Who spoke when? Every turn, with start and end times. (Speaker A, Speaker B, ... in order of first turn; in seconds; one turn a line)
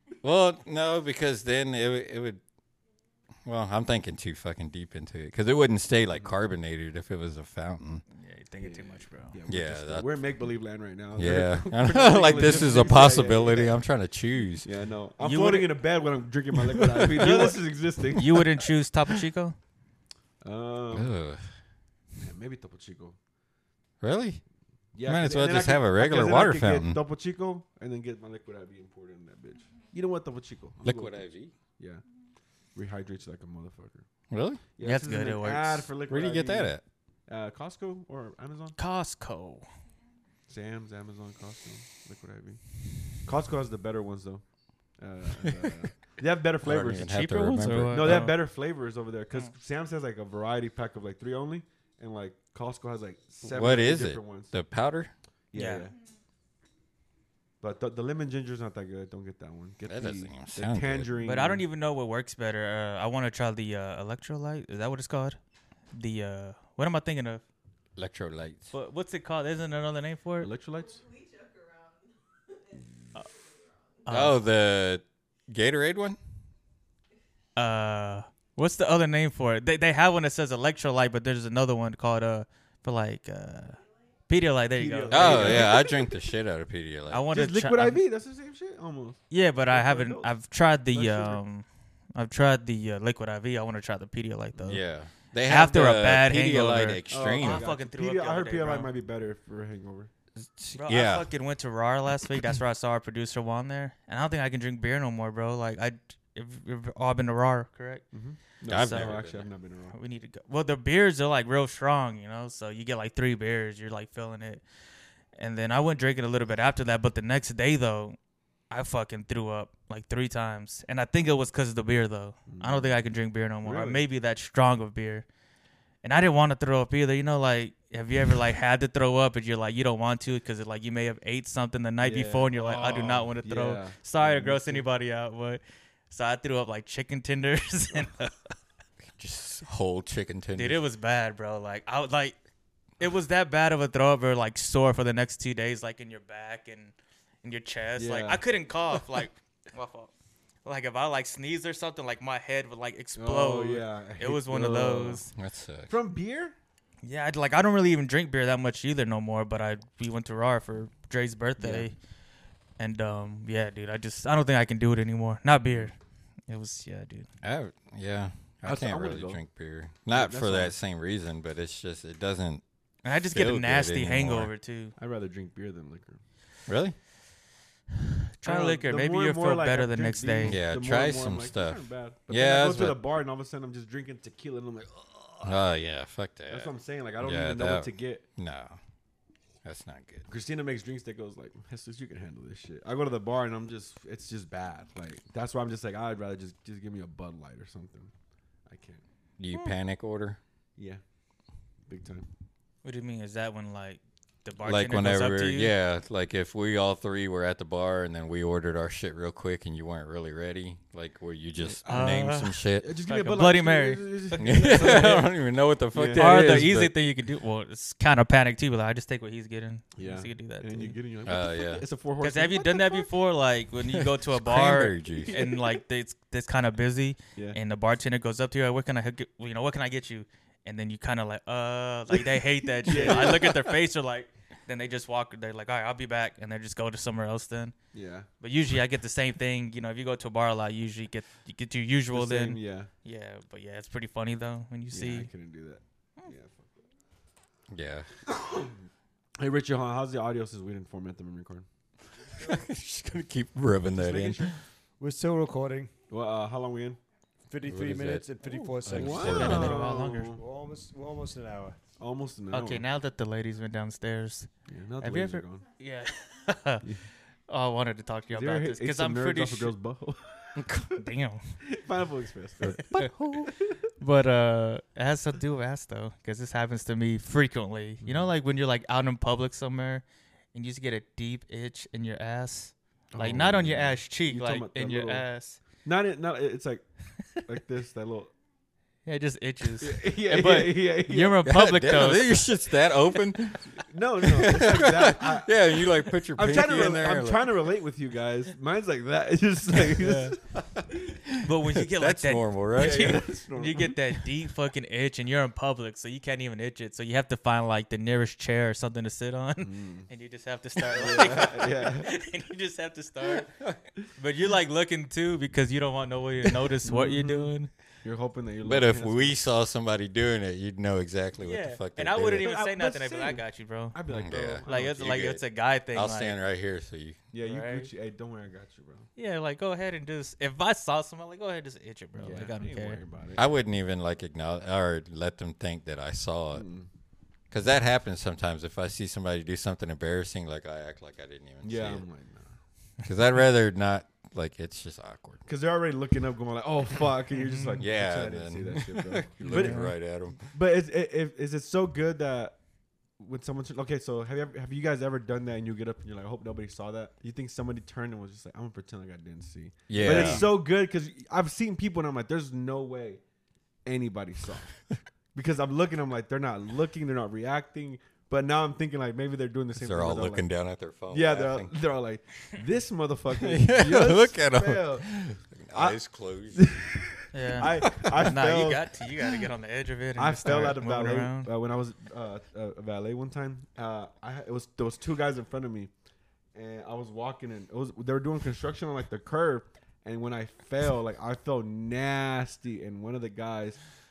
Speaker A: 0.2-2.4
Speaker A: 3.4-8.0
Speaker B: 8.1-9.4
Speaker C: 8.6-13.8
Speaker A: 9.5-10.2
Speaker A: 11.2-14.7
Speaker C: 14.6-18.5
Speaker B: 15.2-15.8
Speaker B: 17.2-19.6
Speaker C: 20.4-21.1
Speaker A: 20.9-21.4
Speaker C: 22.2-23.2
Speaker A: 24.0-24.4
Speaker C: 24.9-31.2
Speaker A: 25.0-27.0
Speaker A: 30.8-31.5
Speaker C: 31.8-32.0
Speaker C: 32.7-34.1
Speaker A: 34.3-34.6
Speaker C: 34.8-36.7
Speaker B: 34.8-35.9
Speaker A: 36.1-36.8
Speaker C: 37.3-38.8
Speaker B: 38.8-39.7
Speaker C: 40.5-42.6
Speaker C: 43.1-44.4
Speaker C: 45.0-47.2
Speaker A: 45.4-45.9
Speaker A: 46.6-48.3
Speaker B: 47.0-48.4
Speaker C: 47.9-54.5
Speaker A: 53.4-55.1
Speaker C: 55.5-55.9
Speaker B: 55.5-55.9
Speaker C: 57.6-61.6
Speaker A: 59.9-61.1
Speaker B: 61.2-65.4
Speaker B: 65.9-67.4
Speaker A: 68.0-68.7
Speaker B: 68.7-70.5
Speaker C: 70.4-71.0
Speaker B: 74.0-74.4
Speaker A: 74.1-76.2
Speaker B: 77.5-85.7
Speaker C: 84.7-86.1
Speaker A: 85.1-87.2
Speaker B: 87.1-88.0
Speaker C: 87.3-90.3
Speaker B: 89.3-94.8
Speaker C: 90.9-91.4
Speaker A: 94.6-97.7
Speaker B: 95.4-98.9
Speaker C: 97.1-100.1
Speaker A: 100.3-101.3
Speaker B: 100.7-108.1
Speaker C: 108.1-109.9
Speaker A: 108.7-109.4
Speaker B: 108.7-109.3
Speaker B: 109.9-114.6
Speaker B: 115.3-118.2
Speaker B: 118.7-125.2
Speaker C: 122.5-123.0
Speaker C: 123.6-124.0
Speaker B: 126.0-138.3
Speaker C: 132.0-134.9
Speaker A: 139.1-140.8
Speaker B: 140.6-142.4
Speaker B: 143.0-150.1
Speaker C: 148.0-148.4
Speaker B: 150.6-155.3
Speaker C: 153.2-155.2
Speaker A: 155.3-155.9
Speaker C: 155.9-156.5
Speaker B: 157.0-161.9
Speaker C: 161.6-161.9
Speaker B: 162.8-165.9
Speaker B: 166.5-167.3
Speaker A: 167.4-172.6
Speaker C: 168.6-169.4
Speaker C: 170.1-170.8
Speaker B: 173.0-174.9
Speaker A: 173.1-174.5
Speaker C: 175.0-176.2
Speaker A: 176.7-177.0
Speaker B: 178.4-180.6
Speaker C: 178.4-185.6
Speaker A: 180.4-183.0
Speaker A: 185.4-188.8
Speaker C: 186.5-188.2
Speaker A: 189.6-190.3
Speaker C: 190.3-198.1
Speaker C: 198.7-199.0
Speaker A: 199.4-200.4
Speaker C: 200.8-201.0
Speaker C: 201.9-202.3
Speaker B: 202.8-205.7
Speaker A: 204.6-212.8
Speaker C: 211.6-215.3
Speaker B: 211.9-215.1
Speaker A: 214.4-216.9
Speaker C: 215.9-216.3
Speaker B: 216.1-220.9
Speaker C: 219.9-223.1
Speaker A: 221.2-221.8
Speaker B: 222.2-237.7
Speaker A: 223.9-225.4
Speaker C: 225.2-225.8
Speaker C: 232.8-233.5
Speaker A: 233.3-233.5
Speaker C: 237.9-238.3
Speaker B: 238.4-245.3
Speaker C: 242.1-242.9
Speaker C: 244.9-246.7
Speaker A: 247.7-248.1
Speaker C: 248.2-248.8
Speaker C: 249.4-251.7
Speaker A: 252.4-254.6
Speaker C: 253.9-254.6
Speaker D: 255.0-255.9
Speaker C: 256.1-257.0
Speaker D: 257.5-261.8
Speaker A: 257.6-259.8
Speaker C: 258.9-260.4
Speaker B: 259.1-260.4
Speaker C: 262.0-262.8
Speaker B: 262.5-266.8
Speaker C: 264.7-265.6
Speaker B: 267.5-269.7
Speaker C: 268.3-270.9
Speaker A: 270.6-270.9
Speaker B: 270.9-271.5
Speaker C: 271.6-272.9
Speaker A: 272.6-273.5
Speaker B: 272.9-273.5
Speaker B: 274.0-285.6
Speaker C: 278.0-278.3
Speaker C: 283.1-285.3
Speaker C: 285.8-288.3
Speaker B: 289.0-292.5
Speaker C: 289.8-291.4
Speaker A: 291.4-297.5
Speaker C: 293.7-295.8
Speaker C: 296.3-300.4
Speaker A: 299.8-303.2
Speaker B: 301.4-313.6
Speaker C: 302.7-303.9
Speaker C: 309.6-310.1
Speaker C: 310.9-312.1
Speaker B: 314.1-317.7
Speaker C: 316.9-317.5
Speaker C: 318.0-319.4
Speaker A: 318.6-322.4
Speaker B: 321.4-326.4
Speaker C: 322.4-325.2
Speaker A: 324.1-327.2
Speaker C: 327.3-329.1
Speaker B: 327.4-327.9
Speaker B: 329.2-333.0
Speaker C: 332.2-333.5
Speaker A: 333.4-336.6
Speaker C: 336.5-336.9
Speaker A: 337.5-342.0
Speaker C: 341.6-342.6
Speaker A: 343.0-345.4
Speaker C: 345.4-352.6
Speaker B: 347.4-347.7
Speaker A: 347.8-350.4
Speaker B: 349.4-349.9
Speaker C: 353.2-363.2
Speaker A: 359.9-360.5
Speaker B: 359.9-360.5
Speaker C: 363.8-364.8
Speaker C: 365.3-370.5
Speaker A: 369.7-371.7
Speaker C: 371.1-376.0
Speaker A: 373.3-376.9
Speaker C: 376.5-378.9
Speaker B: 377.3-381.5
Speaker A: 377.6-378.3
Speaker C: 380.2-385.9
Speaker C: 386.5-393.8